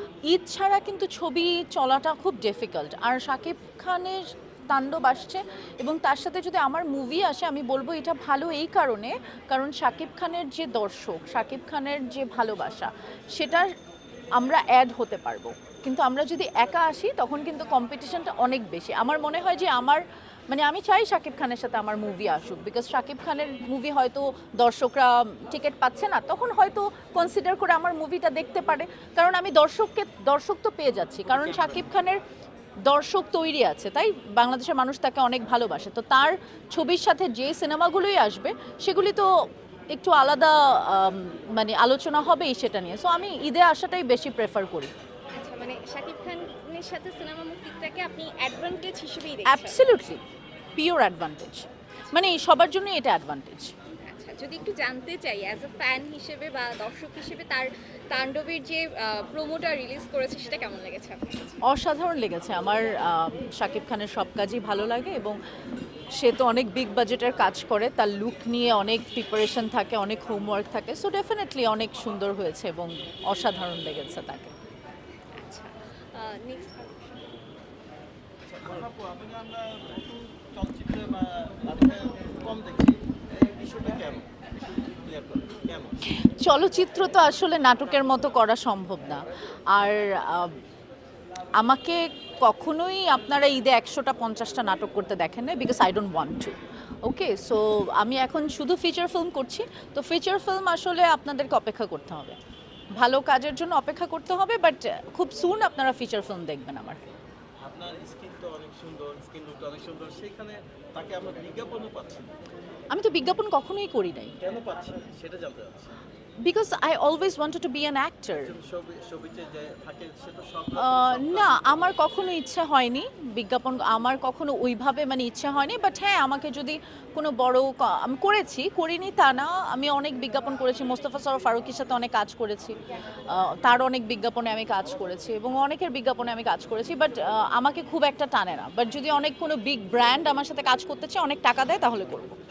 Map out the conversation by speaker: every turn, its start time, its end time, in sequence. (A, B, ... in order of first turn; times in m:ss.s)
0:00.2-0:13.8 A
0:14.4-0:32.2 A
0:32.8-0:39.3 A
0:39.9-0:44.9 A
0:45.3-0:50.0 B
0:49.4-0:50.2 A
0:50.8-0:53.7 A
0:54.1-1:01.6 B
1:01.6-1:05.4 A
1:06.2-1:14.5 A
1:15.4-1:17.4 B
1:18.4-1:24.3 C
1:24.8-1:26.0 C
1:26.2-1:30.6 A
1:31.6-1:42.4 A
1:43.0-1:47.0 A
1:47.6-1:52.4 C
1:52.9-1:54.4 A
1:54.4-1:56.0 C
1:56.4-1:58.5 A
1:58.4-2:01.8 C
2:00.8-2:22.4 A